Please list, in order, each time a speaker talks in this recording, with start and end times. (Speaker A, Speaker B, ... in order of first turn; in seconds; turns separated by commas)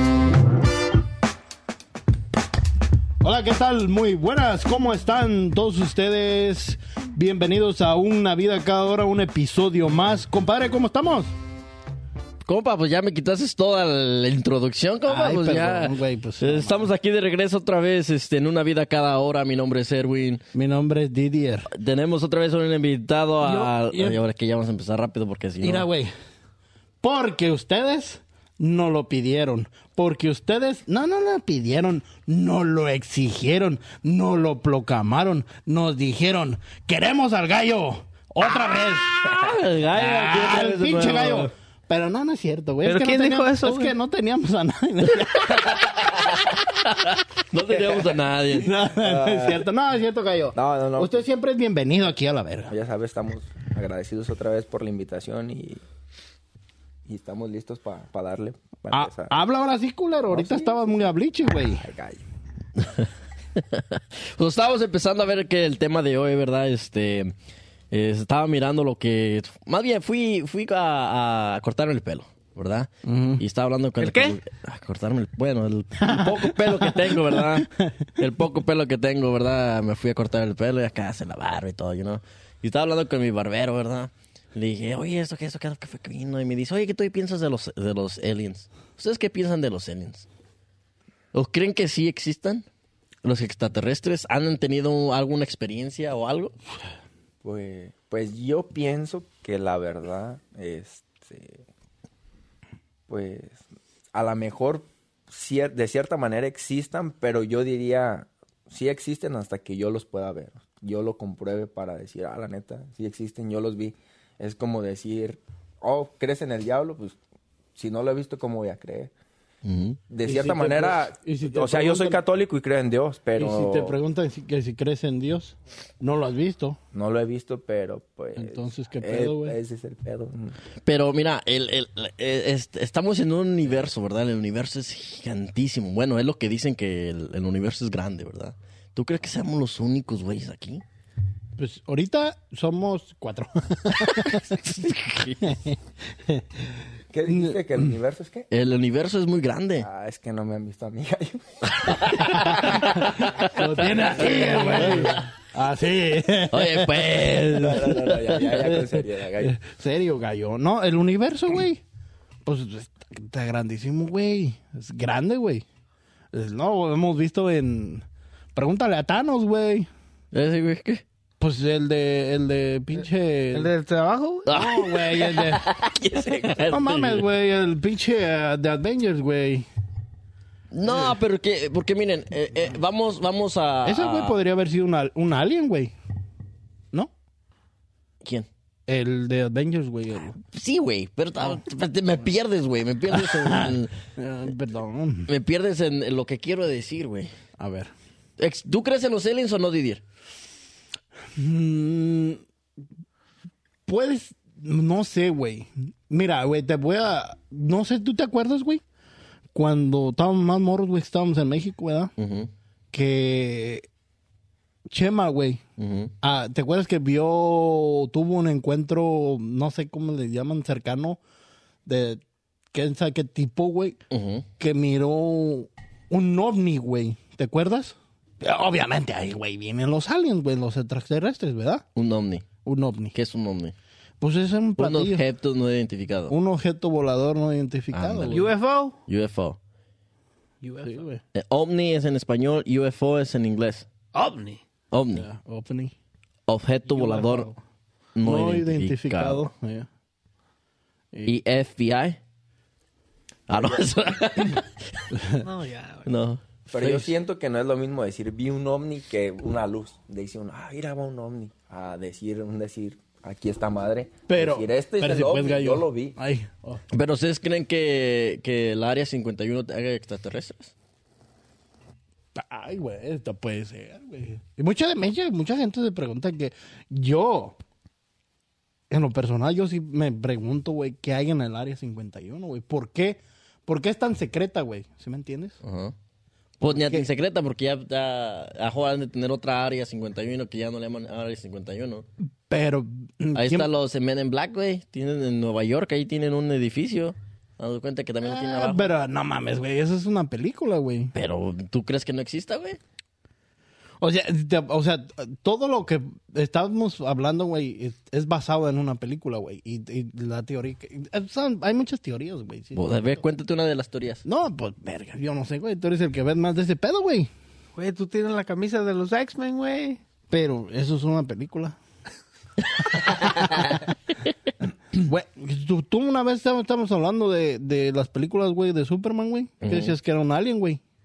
Speaker A: 3.2-11.3, Speaker B: 12.4-20.4, Speaker A: 15.1-16.9, Speaker A: 20.5-21.7, Speaker B: 21.7-25.9, Speaker A: 23.4-24.2, Speaker A: 25.6-26.1, Speaker A: 27.0-39.1, Speaker B: 39.3-41.5, Speaker A: 39.9-46.1, Speaker C: 42.8-43.9, Speaker B: 46.8-48.7, Speaker A: 48.5-52.7, Speaker D: 48.9-49.6, Speaker D: 50.5-51.2, Speaker D: 52.7-55.8, Speaker D: 57.1-59.3, Speaker A: 58.9-61.9, Speaker D: 60.3-60.9, Speaker D: 61.8-62.2, Speaker B: 62.8-67.3, Speaker B: 67.9-77.7, Speaker A: 73.0-73.4, Speaker C: 74.0-74.3, Speaker A: 76.0-78.0, Speaker B: 78.2-90.2, Speaker B: 91.3-92.7, Speaker B: 93.2-96.5, Speaker D: 97.4-101.6, Speaker D: 103.1-103.6, Speaker D: 104.1-117.2, Speaker D: 117.8-119.1, Speaker B: 119.6-120.0, Speaker D: 120.1-123.9, Speaker A: 120.2-122.2, Speaker A: 123.3-126.8, Speaker D: 126.9-130.6, Speaker A: 128.3-129.6, Speaker B: 130.8-140.8, Speaker A: 141.6-144.6, Speaker B: 144.0-145.4, Speaker A: 145.4-146.7, Speaker D: 147.1-148.5, Speaker A: 147.3-147.9, Speaker B: 148.5-149.9, Speaker D: 149.8-153.2, Speaker A: 152.6-161.8, Speaker B: 154.2-155.1, Speaker D: 154.4-155.1, Speaker B: 156.5-158.4, Speaker D: 157.5-159.6, Speaker A: 162.4-165.6, Speaker A: 166.3-169.9, Speaker B: 170.3-171.0, Speaker A: 171.4-173.7, Speaker C: 173.5-174.4, Speaker B: 174.4-177.2, Speaker A: 174.5-175.7, Speaker A: 176.7-179.7, Speaker B: 180.7-184.3, Speaker A: 183.8-185.9, Speaker A: 188.9-190.4, Speaker B: 190.4-193.9, Speaker A: 193.1-195.3, Speaker B: 195.3-197.3, Speaker A: 197.6-197.9, Speaker B: 198.4-200.0, Speaker A: 201.3-202.4, Speaker A: 203.9-208.8, Speaker A: 209.5-212.1, Speaker B: 212.2-212.5, Speaker A: 212.9-213.9, Speaker A: 214.9-215.6, Speaker B: 215.8-216.1, Speaker A: 216.2-221.2, Speaker A: 221.8-222.2, Speaker A: 222.7-224.0, Speaker B: 224.1-224.4, Speaker A: 224.6-231.8, Speaker B: 231.9-232.4, Speaker A: 232.6-233.1, Speaker B: 233.1-233.7, Speaker A: 234.2-235.2, Speaker B: 234.8-236.3, Speaker A: 236.3-238.5, Speaker B: 237.9-238.5, Speaker C: 238.3-239.0, Speaker B: 239.1-239.6, Speaker C: 240.6-241.1, Speaker A: 240.8-241.2, Speaker B: 241.3-243.8, Speaker C: 244.1-244.6, Speaker B: 244.9-245.2, Speaker A: 245.1-245.9, Speaker B: 246.5-247.5, Speaker C: 246.8-247.6, Speaker B: 248.1-249.5, Speaker A: 248.2-249.9, Speaker B: 251.2-252.2, Speaker B: 253.5-254.6, Speaker A: 255.1-255.4, Speaker C: 255.4-256.1, Speaker B: 256.1-257.1, Speaker D: 256.7-266.1, Speaker A: 264.3-266.8, Speaker B: 266.9-270.7, Speaker A: 272.3-277.6, Speaker A: 278.9-285.6, Speaker B: 285.6-285.9, Speaker B: 286.6-292.1, Speaker A: 286.6-287.1, Speaker A: 292.5-293.7, Speaker B: 293.3-298.9, Speaker A: 298.2-301.1, Speaker B: 301.1-302.8, Speaker A: 304.0-313.2, Speaker B: 312.7-314.2, Speaker A: 314.2-317.3, Speaker C: 317.8-320.0, Speaker A: 320.3-321.8, Speaker A: 323.0-323.9, Speaker A: 324.9-330.8, Speaker B: 329.6-329.9